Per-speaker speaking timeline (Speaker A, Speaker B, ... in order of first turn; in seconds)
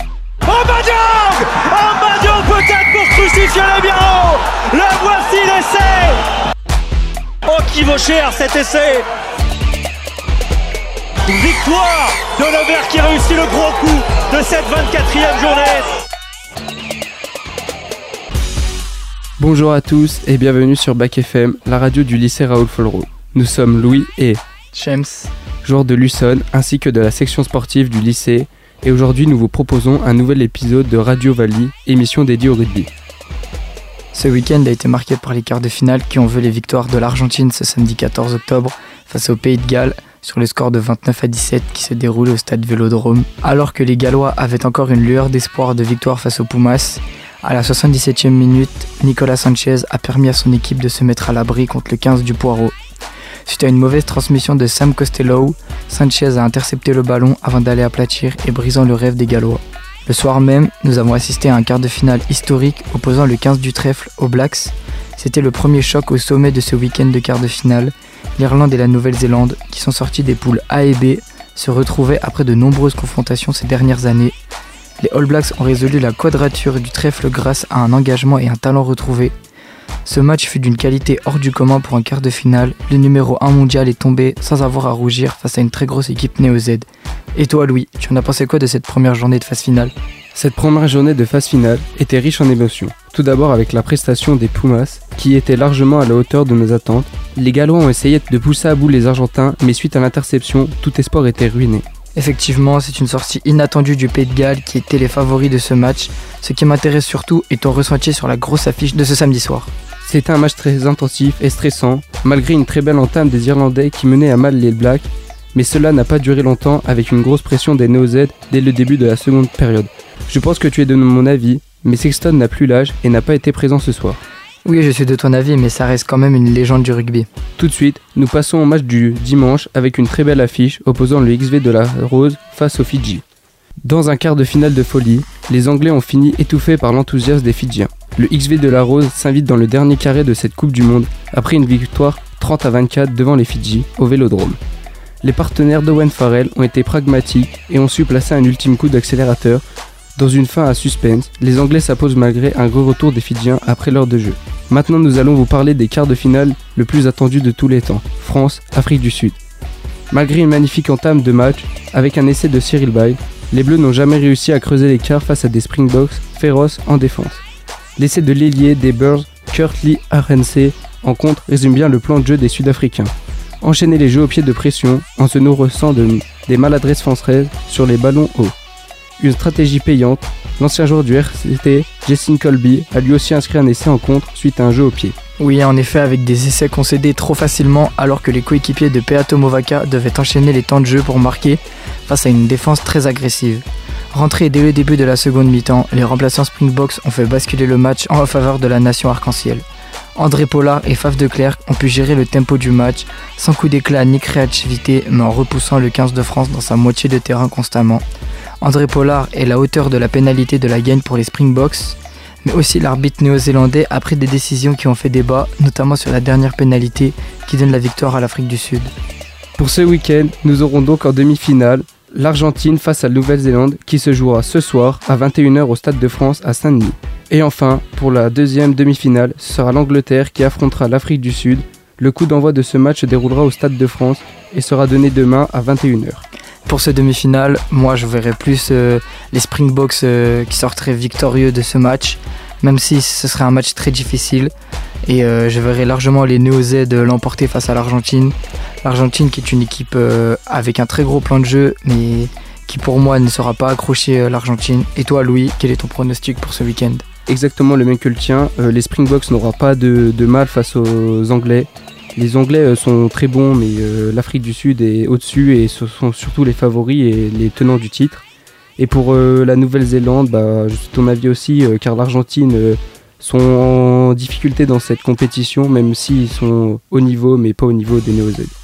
Speaker A: 0.4-6.2, 7.4-9.1, 11.2-15.9
Speaker B: 19.4-24.4, 25.6-32.9, 90.3-101.8, 110.0-124.2, 127.6-133.2, 133.8-144.6, 145.2-149.6, 150.2-159.3, 160.1-167.4, 168.0-178.5, 179.2-185.1, 219.6-236.2, 257.3-268.2, 268.8-278.5
Speaker C: 24.7-25.3, 34.1-52.8, 53.5-74.3, 75.0-79.3, 80.0-89.9, 102.1-109.7, 124.6-127.3, 185.4-199.6, 200.2-208.0, 208.6-218.9, 236.7-244.5, 245.0-257.0